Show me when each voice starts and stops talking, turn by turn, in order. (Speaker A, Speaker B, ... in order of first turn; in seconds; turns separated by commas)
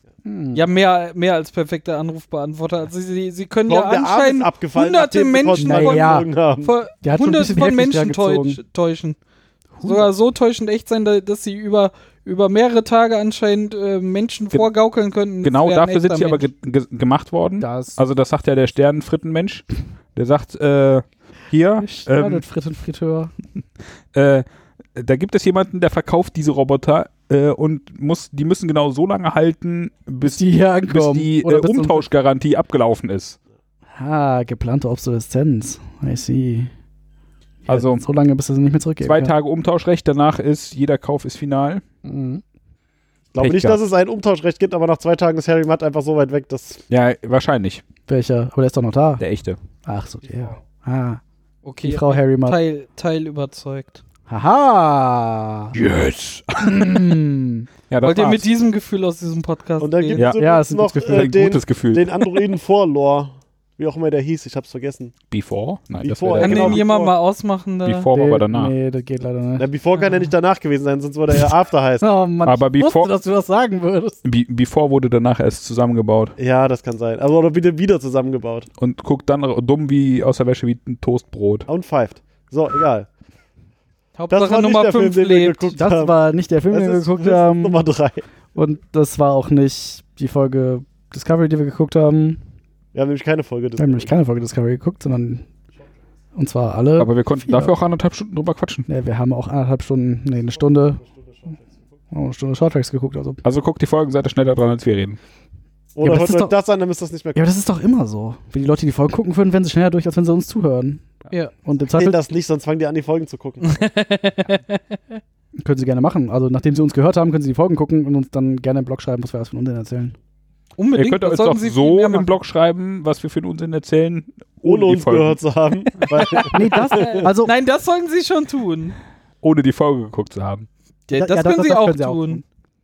Speaker A: 0.2-0.6, Speaker B: 0.5-9.2, Speaker C: 3.7-6.7, Speaker A: 5.6-6.3, Speaker A: 7.0-8.6, Speaker A: 9.7-10.1, Speaker B: 9.8-16.5, Speaker D: 15.4-22.4, Speaker A: 17.6-18.0, Speaker A: 21.8-23.3, Speaker D: 24.1-33.4, Speaker A: 30.2-32.1, Speaker A: 33.9-36.7, Speaker A: 37.6-39.3, Speaker D: 37.7-38.0, Speaker D: 39.0-41.8, Speaker A: 42.0-42.4, Speaker C: 43.3-46.8, Speaker D: 43.4-43.8, Speaker D: 46.9-47.8, Speaker A: 48.1-49.2, Speaker D: 49.2-49.6, Speaker A: 49.9-51.2, Speaker B: 51.6-54.0, Speaker A: 51.8-52.6, Speaker A: 54.3-55.8, Speaker D: 55.7-57.2, Speaker A: 56.6-57.7, Speaker D: 57.9-58.5, Speaker B: 58.0-60.3, Speaker C: 59.8-65.1, Speaker D: 60.2-60.4, Speaker A: 60.4-61.5, Speaker D: 61.0-62.4, Speaker D: 65.3-66.9, Speaker C: 66.0-67.1, Speaker B: 66.4-68.1, Speaker D: 67.8-68.7, Speaker A: 68.1-69.7, Speaker C: 69.6-72.1, Speaker A: 72.0-74.2, Speaker D: 72.4-73.1, Speaker D: 74.2-76.3, Speaker C: 76.4-78.7, Speaker D: 78.8-81.7, Speaker C: 81.7-83.1, Speaker B: 84.2-85.8, Speaker C: 84.3-86.2, Speaker A: 85.8-87.8, Speaker C: 86.7-88.3, Speaker A: 88.5-92.4, Speaker C: 92.9-94.1, Speaker A: 93.8-95.5, Speaker A: 96.3-97.7, Speaker D: 97.0-98.9, Speaker A: 98.9-101.0, Speaker C: 100.8-101.9, Speaker A: 102.1-103.4, Speaker D: 103.4-105.2, Speaker C: 105.9-107.5, Speaker A: 106.0-106.5, Speaker A: 107.3-112.2, Speaker C: 111.9-113.9, Speaker B: 113.6-115.2, Speaker A: 115.6-120.2, Speaker B: 120.8-122.3, Speaker D: 121.0-125.4, Speaker C: 124.6-127.3, Speaker B: 126.3-129.0, Speaker A: 126.5-127.5, Speaker D: 129.4-130.7, Speaker B: 131.1-132.4, Speaker A: 131.1-132.4